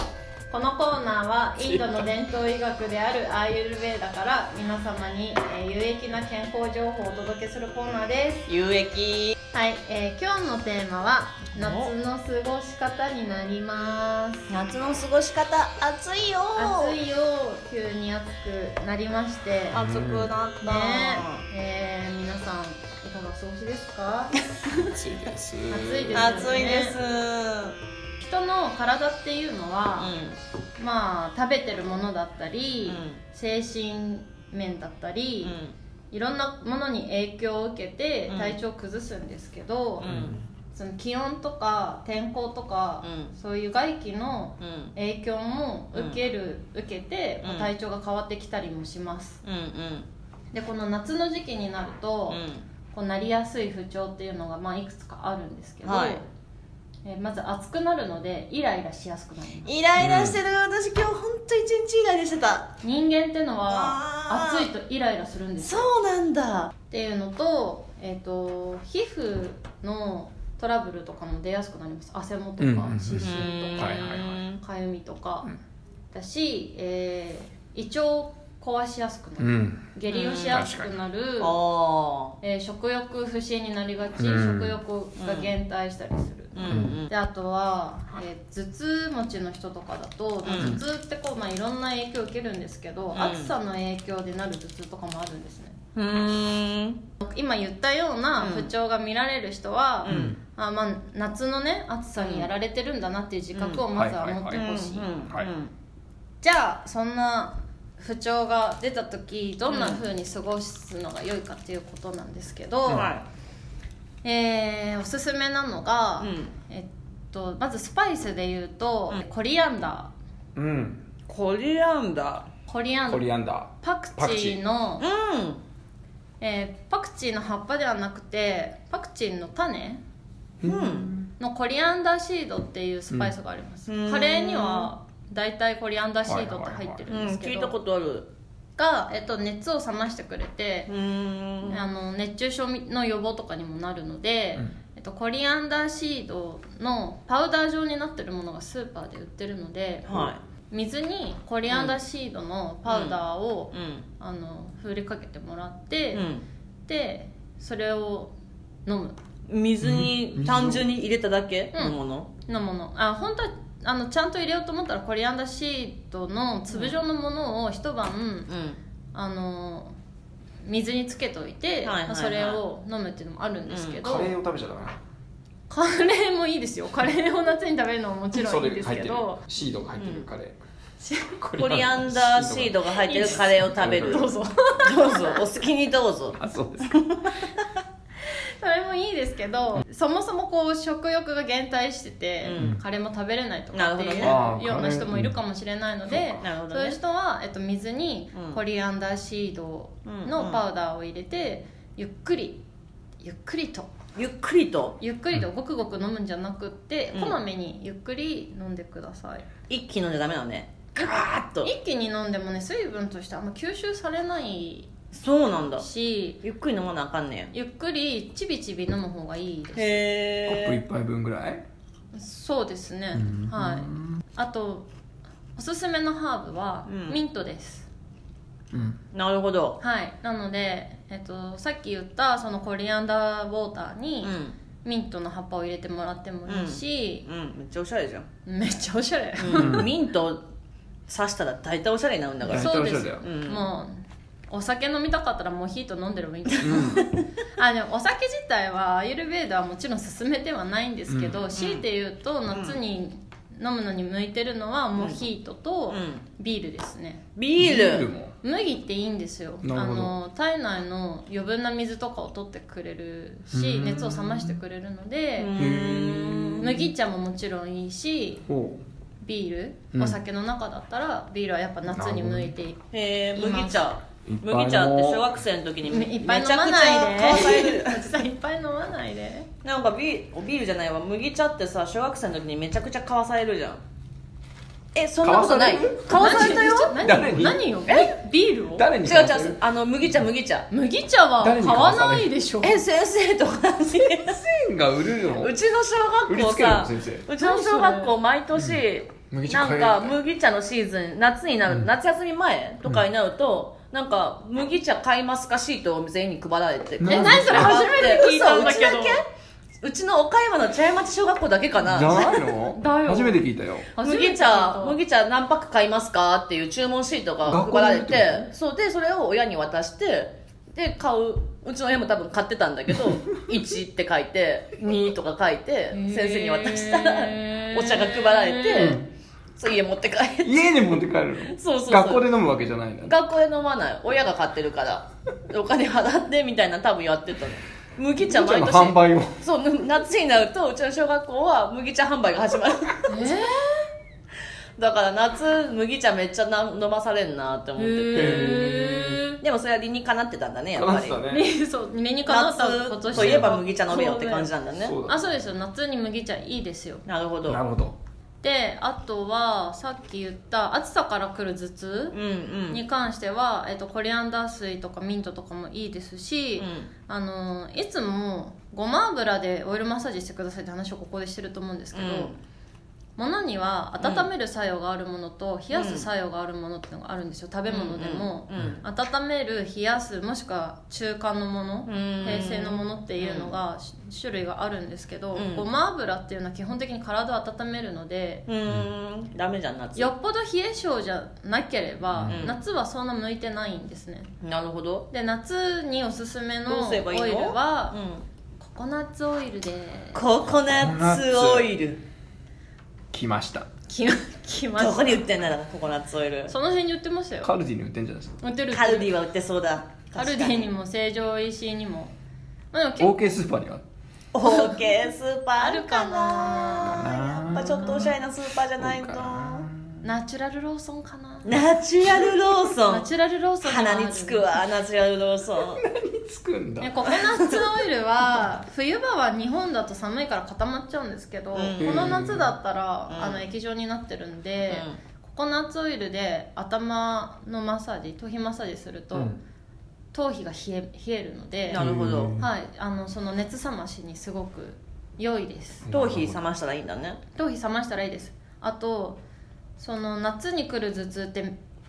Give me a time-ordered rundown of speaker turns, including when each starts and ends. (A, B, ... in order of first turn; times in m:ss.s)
0:00.5-0:08.5 A
0:01.6-0:02.1 B
0:08.5-0:09.4 C
0:09.5-0:14.5 A
0:11.5-0:11.9 C
0:14.5-0:17.0 C
0:16.6-0:19.8 A
0:19.7-0:20.3 B
0:19.7-0:21.4 C
0:20.6-0:24.8 A
0:24.8-0:26.6 B
0:25.7-0:27.0 A
0:26.1-0:27.8 C
0:28.2-0:30.1 A
0:30.0-0:30.4 C
0:30.8-0:35.6 A
0:32.9-0:33.2 C
0:35.4-0:35.8 C
0:36.1-0:40.1 A
0:38.3-0:38.6 C
0:40.0-0:40.4 C
0:40.1-0:40.4 B
0:40.7-0:49.4 A
0:43.0-0:43.3 C
0:44.6-0:44.9 C
0:45.9-0:46.2 C
0:47.4-0:47.7 C
0:49.4-0:50.1 C
0:50.5-0:52.4 A
0:52.3-0:52.6 C
0:52.9-0:56.3 A
0:55.8-0:56.2 C
0:57.0-0:59.7 A
0:59.6-1:02.7 C
1:00.0-1:00.4 B
1:02.8-1:05.9 A
1:03.7-1:04.7 C
1:05.6-1:06.7 C
1:06.9-1:15.5 A
1:12.6-1:14.4 B
1:13.2-1:14.6 C
1:16.1-1:21.6 A
1:19.4-1:19.9 B
1:20.1-1:20.6 C
1:20.5-1:20.9 B
1:21.4-1:22.4 C
1:22.4-1:35.8 A
1:24.2-1:24.8 B
1:25.2-1:25.5 C
1:26.6-1:27.1 C
1:26.7-1:27.0 B
1:30.4-1:30.8 C
1:30.6-1:30.8 B
1:33.1-1:33.5 C
1:36.0-1:37.0 C
1:37.2-1:45.1 A
1:38.4-1:38.7 C
1:40.0-1:40.4 C
1:40.1-1:40.4 B
1:42.2-1:42.5 C
1:43.5-1:43.9 C
1:43.9-1:45.5 B
1:44.5-1:45.7 C
1:46.4-1:53.1 A
1:49.7-1:50.1 C
1:52.9-1:53.2 C
1:54.2-2:00.1 A
1:56.2-1:56.5 C
2:00.6-2:01.0 B
2:01.3-2:02.5 C
2:02.7-2:03.3 A
2:03.1-2:04.6 B
2:03.8-2:05.0 A
2:05.0-2:05.6 C
2:06.4-2:10.0 A
2:10.6-2:11.3 B
2:10.6-2:11.1 C
2:11.4-2:17.8 A
2:13.9-2:14.9 C
2:16.3-2:17.1 B
2:17.1-2:18.3 C
2:18.8-2:20.9 A
2:20.9-2:21.8 C
2:21.6-2:36.3 A
2:30.1-2:30.4 C
2:31.7-2:32.0 C
2:32.9-2:34.0 C
2:36.1-2:36.4 C
2:36.9-2:38.3 A
2:38.9-2:39.2 A
2:39.5-2:42.3 C
2:39.8-2:40.9 B
2:41.7-2:48.5 A
2:46.7-2:47.0 C
2:48.5-2:48.8 C
2:49.1-2:49.9 A
2:50.6-2:54.4 A
2:51.8-2:52.6 C
2:53.7-2:54.0 C
2:54.0-2:55.0 B
2:55.7-2:59.4 A
2:58.3-3:00.6 B
3:00.0-3:00.3 C
3:01.0-3:01.4 A
3:01.3-3:04.4 B
3:01.6-3:04.3 C
3:03.1-3:05.4 A
3:04.8-3:07.3 C
3:06.4-3:07.0 B
3:08.3-3:22.6 A
3:12.4-3:12.8 C
3:12.6-3:12.8 B
3:13.7-3:14.4 C
3:14.2-3:15.4 B
3:16.1-3:16.4 B
3:16.4-3:17.0 C
3:18.3-3:18.6 C
3:20.0-3:20.6 C
3:23.2-3:23.9 A
3:24.2-3:25.0 C
3:25.0-3:29.5 A
3:27.1-3:27.4 C
3:29.7-3:31.7 C
3:31.6-3:34.9 A
3:35.1-3:35.9 C
3:35.8-3:36.4 A
3:36.4-3:37.5 C
3:37.5-3:40.1 A
3:39.7-3:40.8 C
3:40.5-3:41.6 B
3:42.1-3:44.9 A
3:43.1-3:44.2 B
3:45.6-3:47.9 A
3:46.9-3:47.2 C
3:48.7-3:49.0 B
3:49.1-3:49.8 C
3:49.8-3:57.3 A
3:54.2-3:54.6 C
3:56.5-3:58.3 C
3:58.5-3:59.9 A
3:59.4-4:00.4 C
3:59.6-3:59.9 B
4:01.1-4:03.6 C
4:02.4-4:03.3 B
4:02.5-4:17.2 A
4:06.6-4:07.0 B
4:06.7-4:07.2 C
4:11.1-4:11.4 B
4:11.6-4:11.8 C
4:12.5-4:12.8 C
4:15.9-4:16.2 C
4:17.4-4:18.1 C
4:17.6-4:18.3 B
4:18.4-4:25.5 A
4:19.6-4:20.2 B
4:23.5-4:24.6 B
4:25.4-4:26.9 C
4:25.6-4:26.7 B
4:26.6-4:28.5 A
4:28.5-4:28.8 B
4:29.2-4:32.8 A
4:29.9-4:30.2 B
4:31.9-4:32.5 B
4:32.9-4:38.1 C
4:33.3-4:33.9 A
4:34.3-4:35.3 B
4:35.8-4:39.5 A
4:39.6-4:43.8 C
4:45.0-4:47.1 C
4:45.2-4:46.4 B
4:46.1-4:48.9 A
4:47.0-4:47.7 B
4:47.9-4:48.1 C
4:48.8-4:49.6 B
4:49.0-4:50.7 C
4:50.7-4:52.8 A
4:51.4-4:52.3 B
4:52.6-4:54.4 C
4:54.1-4:55.5 B
4:55.3-5:09.2 C
4:56.3-4:57.3 B
4:57.4-4:58.1 A
4:58.6-5:00.2 B
5:07.0-5:07.9 B
5:07.0-5:09.2 A
5:09.8-5:12.5 C
5:11.8-5:13.9 B
5:12.2-5:15.0 A
5:14.0-5:29.0 C
5:17.4-5:18.5 B
5:25.9-5:29.0 A
5:28.7-5:29.1 B
5:29.6-5:32.3 C
5:30.4-5:33.2 B
5:33.0-5:43.2 C
5:38.2-5:39.4 B
5:43.1-5:43.9 A
5:44.8-5:48.6 C
5:47.8-5:49.4 A
5:48.1-5:49.2 B
5:49.4-5:51.2 C
5:50.8-5:51.5 B
5:51.3-5:54.5 A
5:52.3-5:55.0 C
5:53.1-5:53.6 B
5:54.8-5:55.3 B
5:55.1-5:57.0 A
5:57.1-5:57.6 C
5:57.5-5:58.0 B
5:58.4-6:02.2 A
6:02.1-6:02.8 C
6:02.7-6:12.3 A
6:06.6-6:06.9 C
6:11.9-6:12.4 C
6:13.2-6:28.4 A
6:14.0-6:14.3 C
6:15.7-6:16.1 C
6:17.7-6:18.8 C
6:21.9-6:23.6 C
6:25.4-6:25.6 C
6:28.5-6:30.1 C
6:30.0-6:34.3 A
6:32.1-6:32.5 B
6:32.3-6:32.6 C
6:34.4-6:35.1 C
6:35.1-6:38.0 A
6:36.7-6:38.2 C
6:38.6-6:40.2 A
6:40.1-6:42.0 C
6:40.7-6:41.7 B
6:43.1-6:43.7 B
6:43.9-6:45.2 A
6:44.8-6:46.5 C
6:46.5-6:47.5 A
6:47.4-6:48.4 B
6:48.4-6:49.2 A
6:48.7-6:50.7 C
6:50.1-6:52.1 A
6:52.7-6:53.4 A
6:53.0-6:53.8 B
6:54.3-6:59.7 C
6:54.4-6:54.7 A
6:55.6-6:58.2 A
6:56.9-7:00.1 B
7:00.0-7:01.5 A
7:01.4-7:03.1 C
7:02.9-7:04.6 A
7:03.6-7:05.8 C
7:05.8-7:07.2 B
7:06.8-7:19.4 A
7:07.2-7:07.6 C
7:11.5-7:12.1 C
7:11.8-7:12.6 B
7:13.1-7:13.4 C
7:14.7-7:15.0 C
7:19.1-7:19.4 B
7:20.1-7:25.9 A
7:21.7-7:22.4 C
7:21.8-7:22.5 B
7:25.8-7:26.4 B
7:25.9-7:27.2 C
7:27.4-7:29.2 A
7:29.8-7:31.6 A